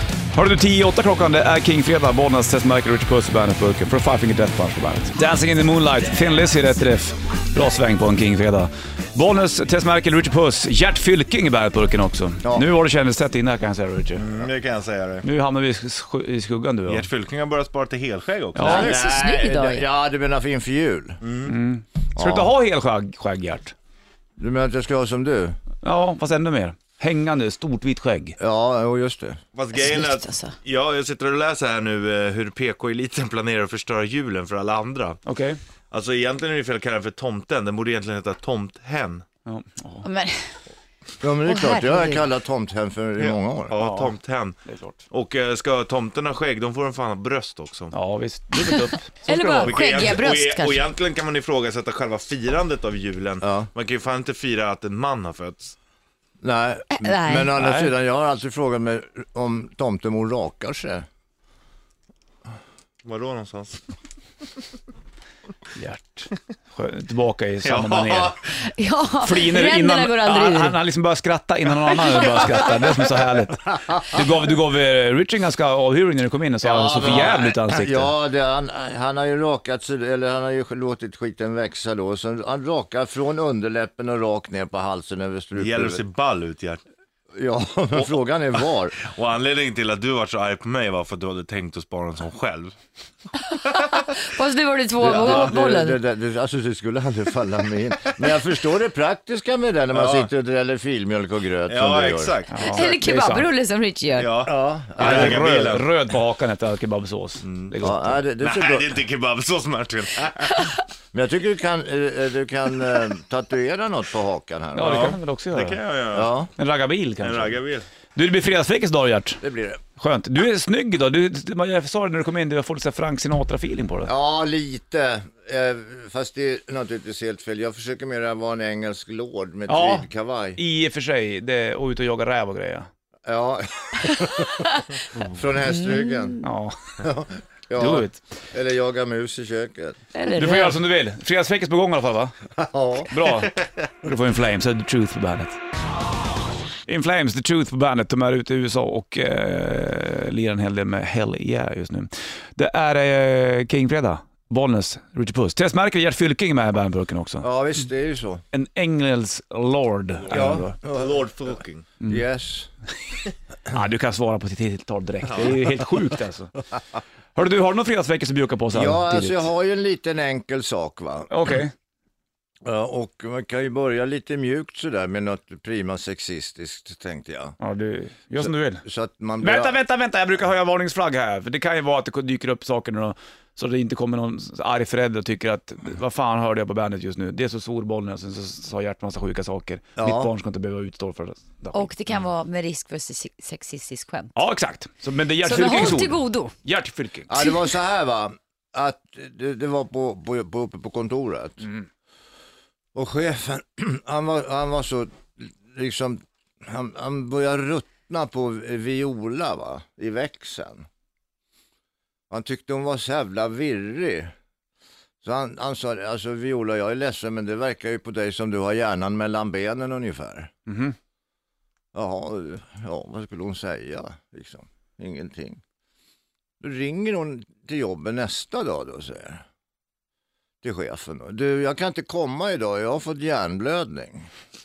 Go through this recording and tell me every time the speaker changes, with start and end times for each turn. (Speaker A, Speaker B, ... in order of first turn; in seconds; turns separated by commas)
Speaker A: 0.3-14.5, Speaker B: 14.2-15.3, Speaker A: 15.2-17.1, Speaker B: 16.9-19.0, Speaker A: 18.6-18.9, Speaker C: 18.6-19.9, Speaker D: 18.6-21.2, Speaker B: 21.2-21.6, Speaker A: 21.5-23.7, Speaker D: 22.2-22.5, Speaker D: 24.4-25.6, Speaker A: 25.8-28.4, Speaker D: 28.4-29.4, Speaker B: 29.6-35.2, Speaker C: 29.7-30.6, Speaker A: 35.3-35.6, Speaker B: 35.9-39.2, Speaker A: 39.5-40.0, Speaker C: 40.0-40.5, Speaker D: 41.2-43.8, Speaker C: 41.5-42.2, Speaker B: 43.2-44.6, Speaker A: 43.8-44.1, Speaker A: 44.7-45.0, Speaker B: 45.1-47.9, Speaker A: 47.9-49.8, Speaker C: 48.6-50.8, Speaker B: 49.6-55.8, Speaker D: 53.4-53.7, Speaker D: 56.4-61.1, Speaker C: 57.0-57.5, Speaker A: 57.6-57.9, Speaker B: 63.0-63.8, Speaker A: 65.8-68.3, Speaker B: 67.6-68.5, Speaker C: 68.7-70.8, Speaker A: 69.2-78.1, Speaker D: 76.6-86.0, Speaker B: 76.7-77.4, Speaker B: 85.6-86.8, Speaker D: 87.4-89.0, Speaker B: 89.0-92.8, Speaker C: 93.5-96.0, Speaker D: 95.0-102.3, Speaker B: 95.1-95.5, Speaker B: 99.9-100.3, Speaker B: 101.7-102.9, Speaker A: 102.5-103.5, Speaker C: 102.6-104.3, Speaker B: 104.2-105.9, Speaker D: 104.5-105.7, Speaker A: 105.0-108.2, Speaker B: 107.4-107.7, Speaker D: 107.8-109.0, Speaker B: 108.4-110.7, Speaker D: 111.1-115.2, Speaker A: 114.7-115.8, Speaker B: 114.8-116.3, Speaker D: 116.1-116.5, Speaker A: 116.6-117.6, Speaker B: 117.2-117.9, Speaker A: 118.2-119.4, Speaker D: 119.4-119.8, Speaker A: 120.0-124.1, Speaker D: 124.1-130.6, Speaker A: 129.7-132.9, Speaker D: 133.2-136.4, Speaker C: 135.7-136.5, Speaker A: 136.4-136.9, Speaker D: 137.0-140.0, Speaker A: 137.8-138.2, Speaker C: 140.2-140.8, Speaker A: 140.3-142.3, Speaker D: 142.6-143.1, Speaker A: 143.1-145.6, Speaker A: 146.9-157.5, Speaker D: 157.4-158.4, Speaker A: 158.5-160.8, Speaker D: 160.3-161.2, Speaker B: 160.3-161.9, Speaker D: 162.0-162.7, Speaker A: 163.7-166.5, Speaker B: 165.2-165.6, Speaker A: 167.3-169.5, Speaker D: 168.7-171.5, Speaker A: 171.3-171.7, Speaker D: 172.7-177.6, Speaker A: 177.6-178.8, Speaker D: 178.4-179.8, Speaker A: 179.4-191.9, Speaker D: 190.0-190.3, Speaker C: 191.7-194.4, Speaker A: 194.3-197.3, Speaker C: 195.4-196.5, Speaker D: 197.3-201.7, Speaker D: 202.9-210.9, Speaker D: 212.3-214.3, Speaker D: 215.2-220.5, Speaker A: 220.7-221.0, Speaker D: 221.9-225.6, Speaker D: 226.6-229.4, Speaker D: 230.6-234.3